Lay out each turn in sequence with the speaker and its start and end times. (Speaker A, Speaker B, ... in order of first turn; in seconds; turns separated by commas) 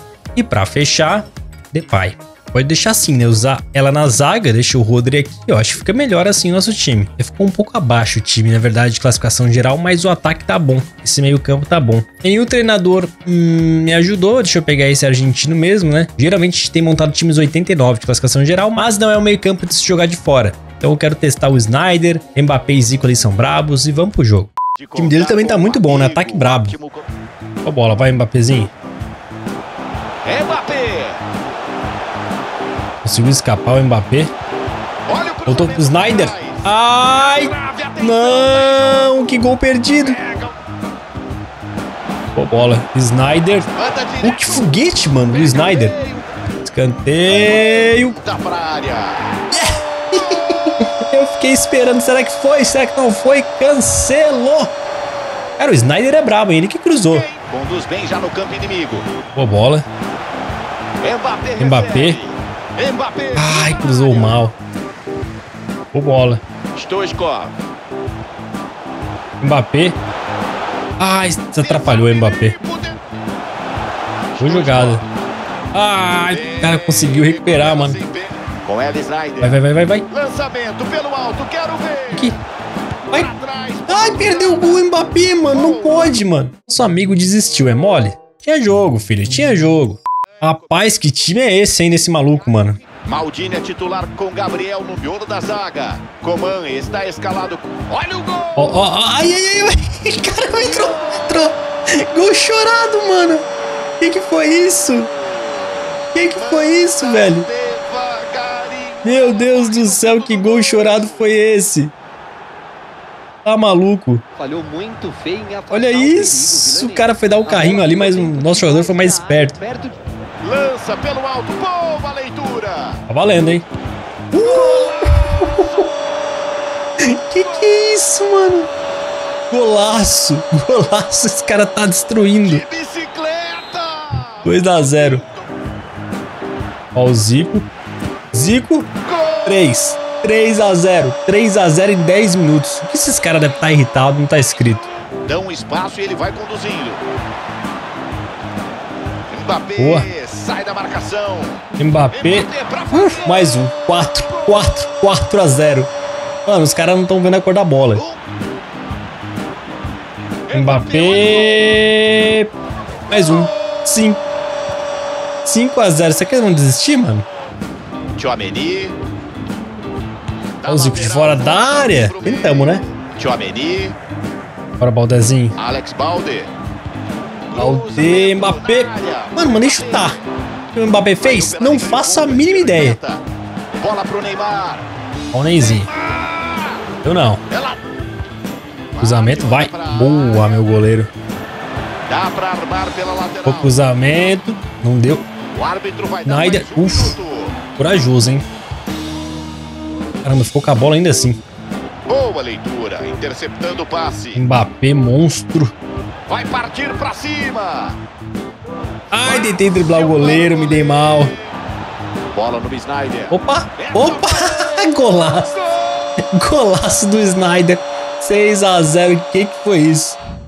Speaker A: 0.4-26.8, Speaker B: 24.8-27.1, Speaker A: 27.6-28.7, Speaker B: 30.2-31.2, Speaker A: 33.0-34.3, Speaker B: 35.1-39.4, Speaker A: 35.5-40.2, Speaker B: 40.0-40.5, Speaker A: 42.4-43.7, Speaker B: 43.8-44.6, Speaker A: 44.2-46.0, Speaker B: 45.3-46.4, Speaker A: 46.6-48.2, Speaker B: 48.2-49.3, Speaker A: 49.5-54.7, Speaker A: 55.6-57.3, Speaker B: 57.1-59.1, Speaker A: 59.4-59.9, Speaker B: 61.0-64.4, Speaker A: 61.6-62.2, Speaker A: 63.4-64.6, Speaker A: 65.9-66.4, Speaker B: 66.8-67.5, Speaker A: 69.4-70.0, Speaker A: 71.0-72.6, Speaker B: 71.6-73.0, Speaker B: 74.3-75.0, Speaker A: 74.4-75.0, Speaker A: 75.7-78.0, Speaker B: 76.3-82.4, Speaker A: 79.4-80.1, Speaker A: 82.1-82.4, Speaker B: 83.1-84.9, Speaker A: 83.9-92.8, Speaker B: 85.5-86.2, Speaker B: 92.9-98.8, Speaker A: 98.6-103.5, Speaker B: 100.7-101.4, Speaker A: 104.0-105.1, Speaker A: 106.1-107.5, Speaker B: 106.3-111.3, Speaker A: 109.0-111.9, Speaker A: 113.5-114.2, Speaker C: 114.4-120.0, Speaker A: 115.7-119.6, Speaker B: 120.4-123.0, Speaker A: 123.1-123.7, Speaker A: 124.3-125.9, Speaker B: 124.3-125.9, Speaker A: 127.0-128.7, Speaker A: 129.5-132.6, Speaker B: 132.4-135.4, Speaker A: 134.4-135.2, Speaker A: 136.9-137.7, Speaker A: 138.3-138.9, Speaker B: 139.1-139.6, Speaker A: 139.4-144.9, Speaker B: 145.3-147.0, Speaker B: 149.3-153.6, Speaker A: 149.8-150.1, Speaker A: 151.8-155.9, Speaker B: 154.3-154.6, Speaker A: 156.5-158.0, Speaker B: 158.0-158.2, Speaker B: 160.5-161.7, Speaker A: 160.5-162.5, Speaker B: 163.1-163.5, Speaker A: 163.1-164.2, Speaker A: 165.4-167.2, Speaker B: 168.2-169.0, Speaker B: 170.6-174.0, Speaker A: 170.7-172.8, Speaker A: 174.8-175.6, Speaker B: 175.6-176.5, Speaker B: 177.5-180.2, Speaker A: 177.6-180.2, Speaker A: 180.7-183.0, Speaker B: 181.2-183.2, Speaker B: 183.8-184.9, Speaker A: 185.3-185.9, Speaker B: 185.7-186.8, Speaker A: 187.0-187.4, Speaker B: 187.5-187.8, Speaker B: 188.9-190.7, Speaker A: 189.0-191.1, Speaker B: 192.1-193.8, Speaker A: 193.4-195.3, Speaker B: 195.5-197.6, Speaker A: 196.2-197.2, Speaker A: 197.8-198.5, Speaker A: 200.2-201.4, Speaker B: 202.1-204.4, Speaker A: 204.3-205.7, Speaker B: 206.3-208.0, Speaker A: 209.1-211.3, Speaker B: 209.2-211.5, Speaker B: 212.3-214.9, Speaker A: 213.3-215.6, Speaker A: 216.3-220.2